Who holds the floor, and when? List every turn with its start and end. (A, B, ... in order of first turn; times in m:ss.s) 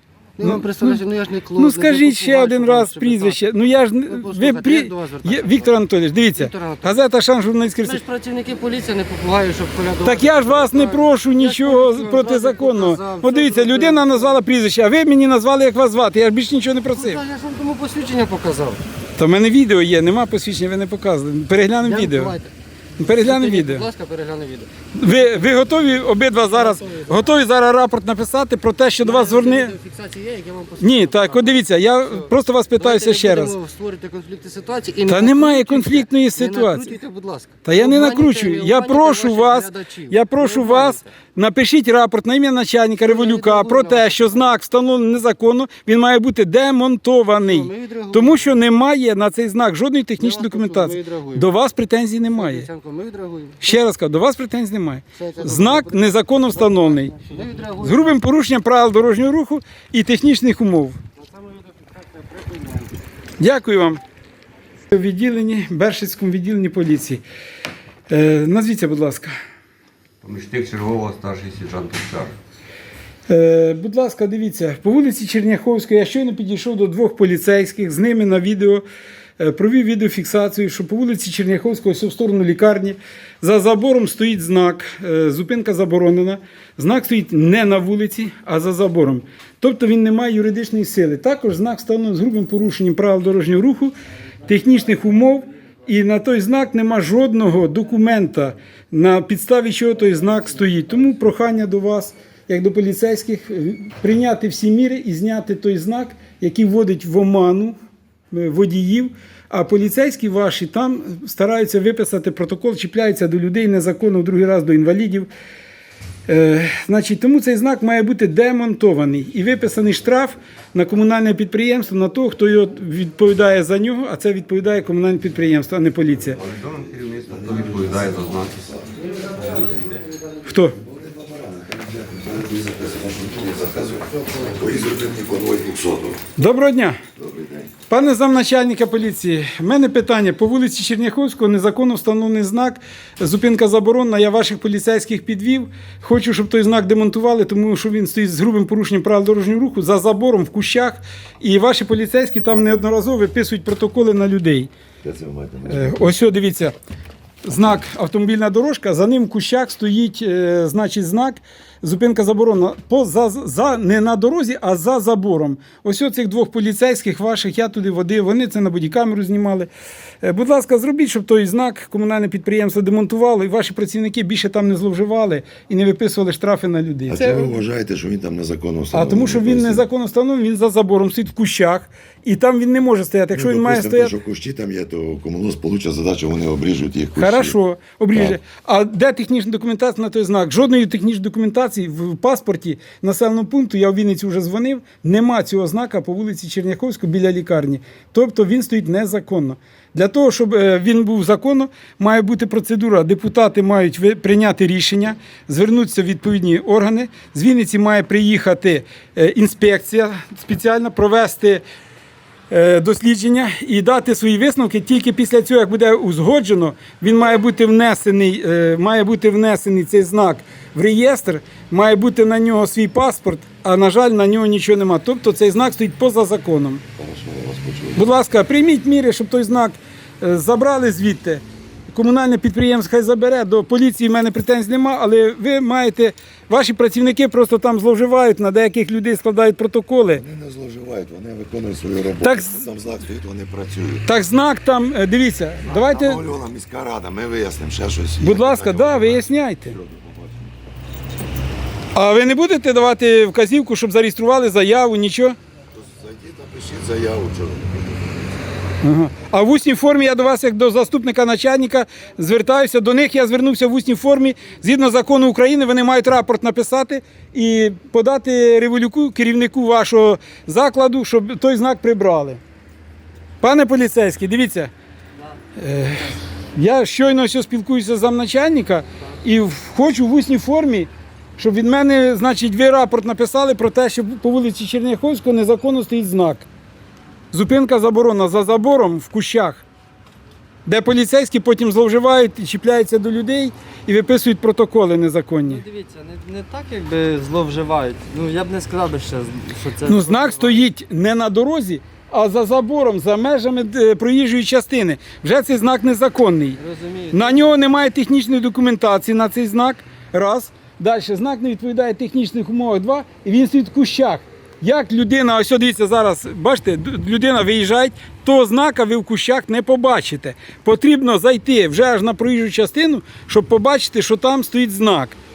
0:00.4-0:03.4 A
0:00.4-0:01.0 B
0:01.6-0:08.0 B
0:04.1-0:05.7 A
0:06.4-0:07.0 A
0:07.8-0:14.4 A
0:10.0-0:17.2 B
0:16.9-0:18.8 A
0:19.2-0:22.4 B
0:21.8-0:24.7 A
0:23.0-0:23.8 B
0:24.9-0:29.7 B
0:26.3-0:27.3 A
0:29.0-0:41.1 A
0:30.8-0:33.6 B
0:35.1-0:36.9 B
0:37.6-0:52.7 B
0:43.0-0:44.5 A
0:47.4-0:48.6 A
0:50.2-0:51.5 A
0:52.3-0:53.8 A
0:53.6-0:57.2 B
0:55.2-0:56.1 A
0:56.6-0:58.1 A
0:57.8-1:01.0 B
1:01.2-1:02.9 A
1:03.4-1:04.0 B
1:04.9-1:07.2 B
1:08.1-1:09.3 B
1:10.2-1:12.3 C
1:13.3-1:18.8 B
1:19.4-1:33.9 B
1:34.4-1:47.7 B
1:48.3-1:55.3 B
1:56.3-2:06.4 B
2:06.4-2:08.9 D
2:06.5-2:08.5 C
2:09.4-2:10.0 C
2:10.4-2:10.8 B
2:10.8-2:16.2 D
2:16.4-2:17.0 B
2:17.2-2:17.7 D
2:17.9-2:34.7 B
2:35.0-2:36.1 D
2:35.6-2:36.7 B
2:37.4-2:49.7 B
2:50.2-2:57.6 B
2:57.1-2:59.8 D
2:58.9-3:04.1 B
3:03.3-3:07.6 D
3:07.2-3:31.6 B
3:32.5-3:46.8 B
3:46.9-3:48.1 D
3:48.0-4:00.2 B
4:00.1-4:04.0 D
4:02.2-4:02.6 B
4:04.0-4:06.2 B
4:05.6-4:10.5 D
4:08.2-4:09.8 B
4:11.9-4:15.4 B
4:15.7-4:18.1 D
4:18.8-4:32.4 B
4:33.4-4:34.7 B
4:35.1-4:35.4 E
4:35.6-4:46.4 B
4:47.3-4:49.6 B
4:50.6-4:55.6 B
4:55.5-5:00.6 E
4:59.8-5:06.6 B
5:06.6-5:07.5 E
5:07.1-5:25.2 B